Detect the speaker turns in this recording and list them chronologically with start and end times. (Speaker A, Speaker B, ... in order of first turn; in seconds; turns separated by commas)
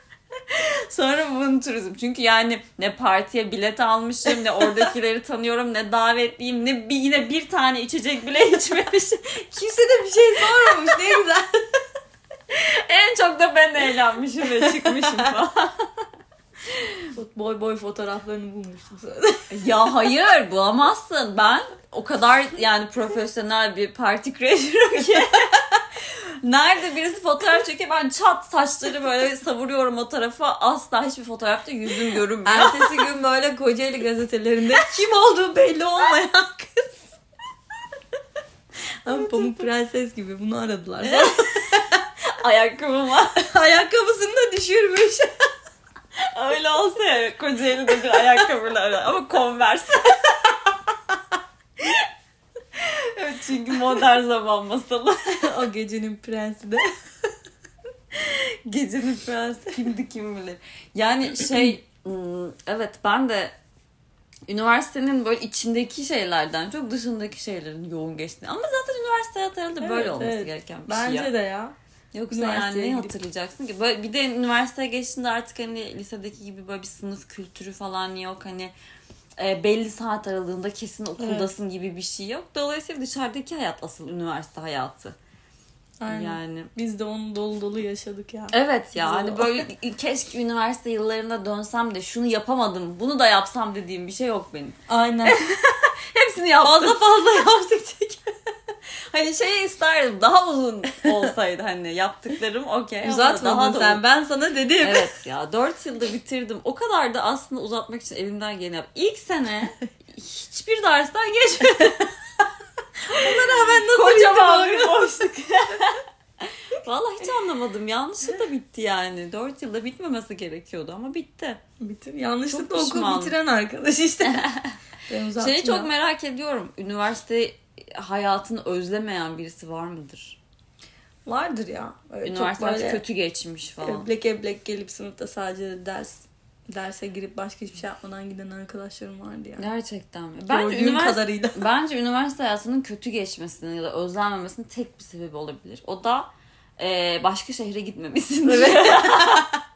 Speaker A: 0.5-9.4, Speaker B: 9.5-11.8, Speaker A: 12.5-15.8, Speaker B: 14.6-15.3, Speaker B: 17.1-19.7, Speaker A: 19.5-33.0, Speaker B: 32.4-37.1, Speaker B: 39.0-42.0, Speaker A: 39.2-39.5, Speaker A: 41.0-41.7, Speaker A: 42.3-43.5, Speaker B: 43.5-45.3, Speaker A: 46.3-50.5, Speaker A: 52.7-55.4, Speaker B: 55.4-56.8, Speaker A: 58.1-63.5, Speaker A: 64.5-71.3, Speaker B: 69.8-71.7, Speaker A: 72.1-78.7, Speaker B: 72.3-73.2, Speaker A: 79.4-85.1, Speaker B: 81.2-81.5, Speaker B: 86.0-89.6, Speaker A: 86.1-86.7, Speaker A: 88.5-97.7, Speaker B: 94.9-95.4, Speaker B: 96.6-98.2, Speaker A: 99.1-104.0, Speaker B: 103.0-105.1, Speaker A: 104.8-112.2, Speaker B: 113.1-115.3, Speaker A: 113.1-121.6, Speaker B: 121.8-124.5, Speaker A: 122.5-123.3, Speaker A: 124.2-124.8, Speaker B: 125.1-125.9, Speaker A: 125.4-130.4, Speaker B: 131.2-133.0, Speaker A: 132.2-134.1, Speaker B: 133.8-139.6, Speaker A: 139.6-149.5, Speaker B: 140.5-141.6, Speaker B: 148.4-149.6